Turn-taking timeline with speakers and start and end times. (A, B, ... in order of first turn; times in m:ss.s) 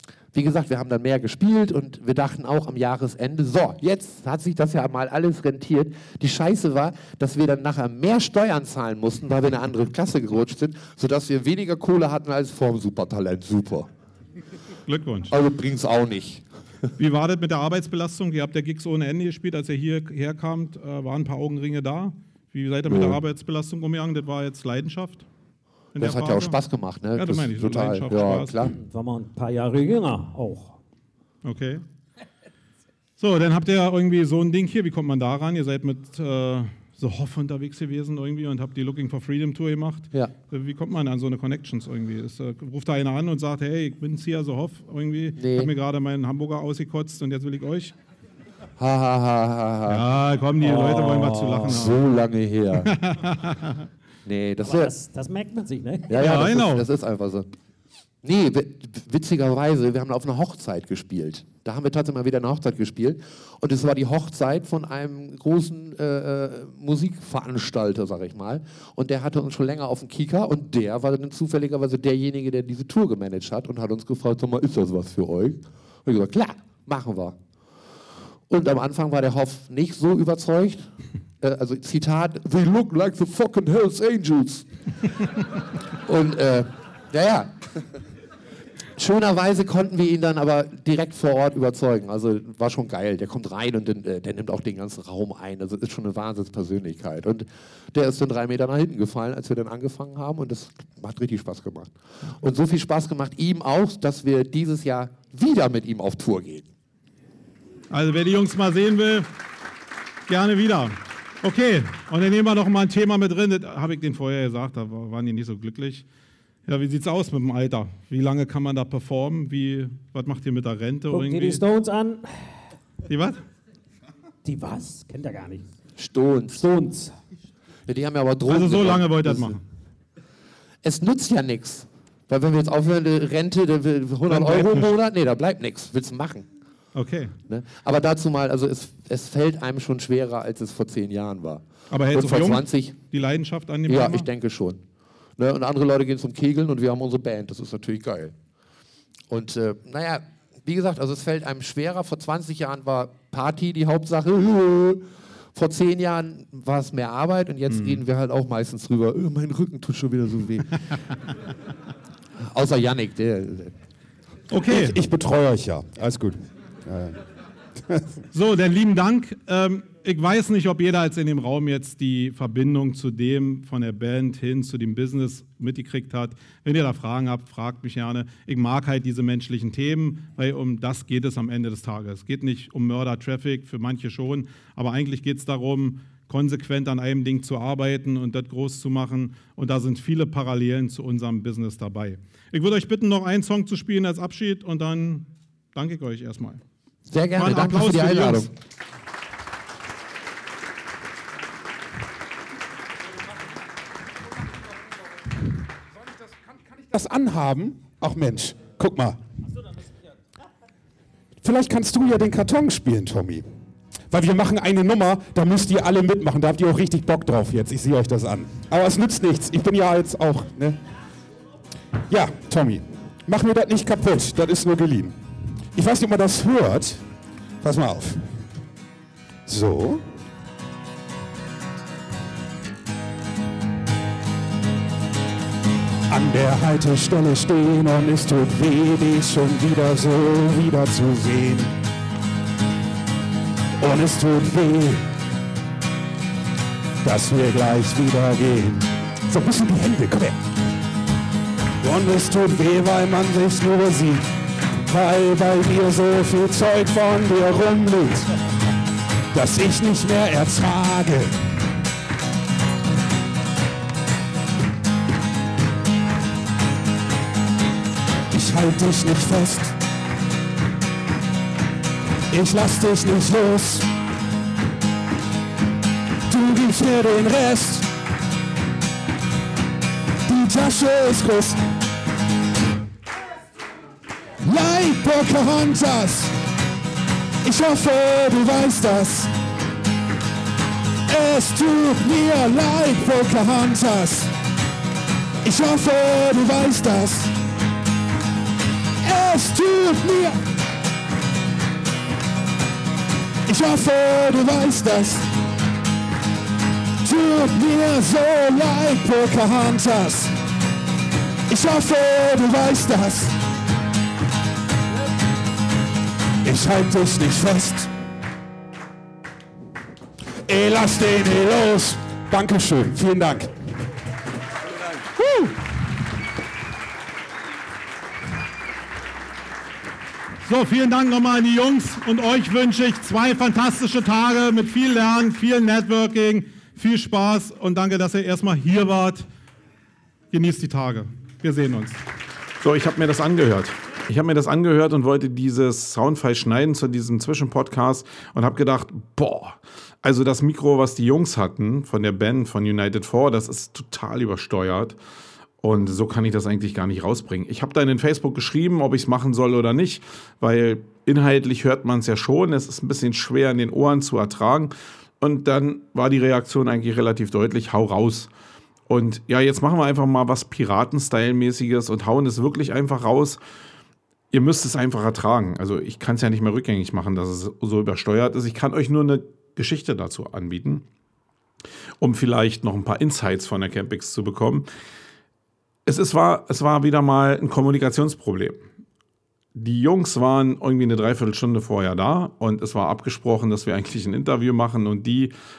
0:00.3-0:13.9 A
0:14.9-0:15.3 B
0:15.3-0:16.4 A
0:17.0-0:25.3 B
0:22.9-0:23.2 A
0:26.0-0:26.6 B
0:26.0-0:28.8 A
0:27.2-0:28.7 B
0:28.7-0:30.8 C
0:31.4-0:31.8 B
0:33.2-0:47.9 B
0:45.4-0:45.7 A
0:48.8-0:50.0 A
0:49.9-0:52.0 B
0:50.6-0:51.6 C
0:51.0-0:52.9 A
0:52.8-0:53.9 B
0:54.3-0:54.9 A
0:54.6-0:56.3 C
0:56.1-0:57.5 A
0:56.1-0:56.9 B
0:58.2-1:17.4 A
1:18.5-1:20.9 A
1:21.4-1:24.7 A
1:26.0-1:27.7 A
1:29.0-1:46.7 A
1:47.9-1:49.3 B
1:50.3-1:56.0 B
1:56.7-2:01.6 B
2:01.1-2:02.6 C
2:03.1-2:03.4 B
2:04.4-2:05.7 C
2:06.0-2:06.7 A
2:06.5-2:07.2 C
2:07.9-2:09.6 A
2:08.5-2:09.6 B
2:10.8-2:16.5 A
2:14.3-2:14.9 B
2:16.9-2:17.4 B
2:17.5-2:23.0 A
2:21.9-2:24.3 B
2:23.9-2:24.8 A
2:25.4-2:28.4 A
2:29.3-2:35.0 A
2:35.6-2:40.9 A
2:37.7-2:38.0 B
2:42.5-2:43.7 A
2:44.5-2:45.0 B
2:44.6-2:47.2 D
2:47.8-2:48.2 D
2:48.3-3:16.6 B
3:17.1-3:18.5 A
3:17.4-3:18.5 B
3:26.7-3:29.2 D
3:31.4-3:33.5 D
3:34.1-3:40.8 D
3:42.1-3:45.2 D
3:45.7-3:47.0 D
3:47.6-3:48.4 D
3:49.5-3:50.1 D
3:56.1-4:01.8 D
4:03.8-4:05.1 D
4:07.0-4:10.4 D
4:11.8-4:18.3 D
4:19.3-4:21.4 D
4:28.3-4:29.8 D
4:32.3-4:33.9 D
4:36.3-4:37.9 D
4:40.2-4:41.6 D
4:44.4-4:46.4 D
4:47.4-4:49.3 D
4:51.1-4:54.3 D
4:55.4-4:57.3 D
4:59.0-5:00.4 D
5:03.5-5:05.3 D
5:07.0-5:10.4 D
5:11.5-5:13.4 D
5:16.4-5:17.9 D
5:20.4-5:23.6 D
5:30.4-5:39.2 B
5:40.3-5:42.0 B
5:42.6-5:55.0 E
5:55.6-6:08.3 E
6:08.9-6:13.4 E
6:14.3-6:20.9 E
6:22.0-6:24.7 E
6:25.9-6:28.6 E
6:29.6-6:35.3 E